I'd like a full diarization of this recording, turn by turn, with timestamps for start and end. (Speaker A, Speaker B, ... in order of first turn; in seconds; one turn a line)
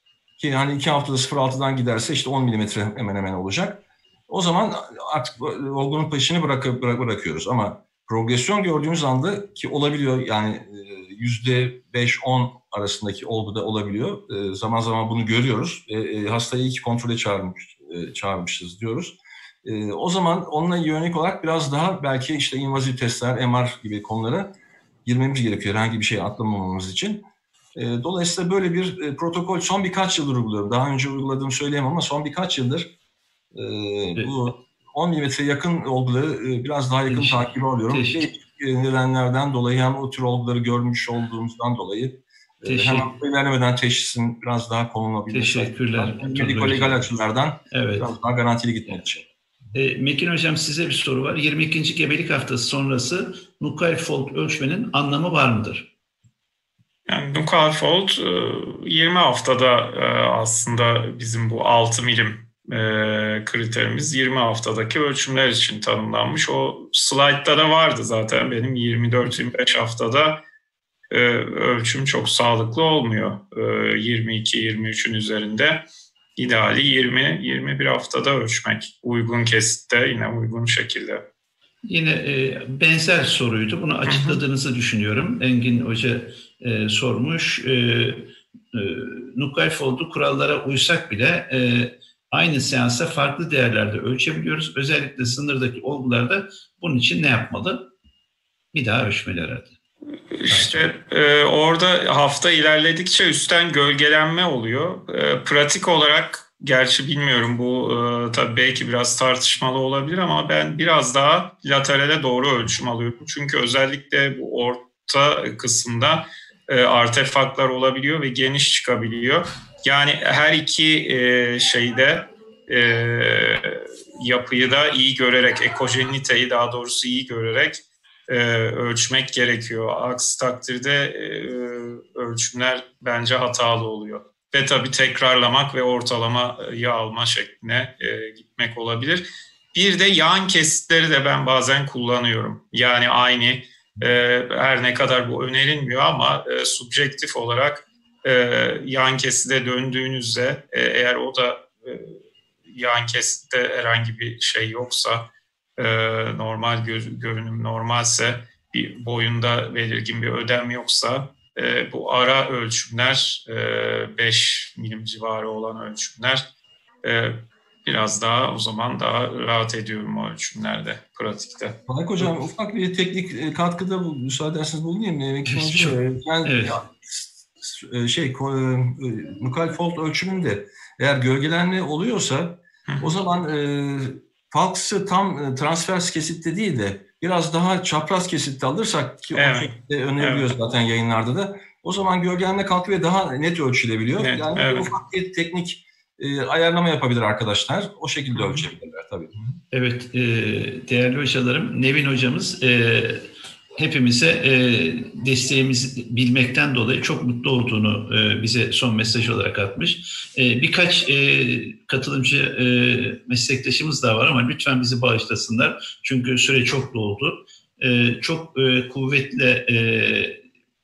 Speaker A: 0.4-24.5
Speaker A: 25.0-27.2
Speaker A: 27.7-32.9
Speaker A: 33.5-49.2
Speaker B: 37.1-38.2
Speaker B: 42.6-43.1
Speaker B: 45.3-47.0
Speaker B: 47.7-48.1
Speaker B: 49.7-55.9
Speaker C: 57.1-70.4
Speaker C: 71.1-75.8
Speaker C: 76.4-81.2
Speaker B: 81.8-97.9
Speaker C: 84.1-84.4
Speaker B: 98.7-99.7
Speaker C: 100.3-152.2
Speaker B: 100.5-100.8
Speaker C: 152.7-155.2
Speaker C: 155.8-166.4
Speaker C: 167.0-171.7
Speaker A: 171.9-199.3
Speaker B: 175.5-176.8
Speaker C: 189.3-190.5
Speaker C: 194.2-194.9
Speaker B: 199.7-220.4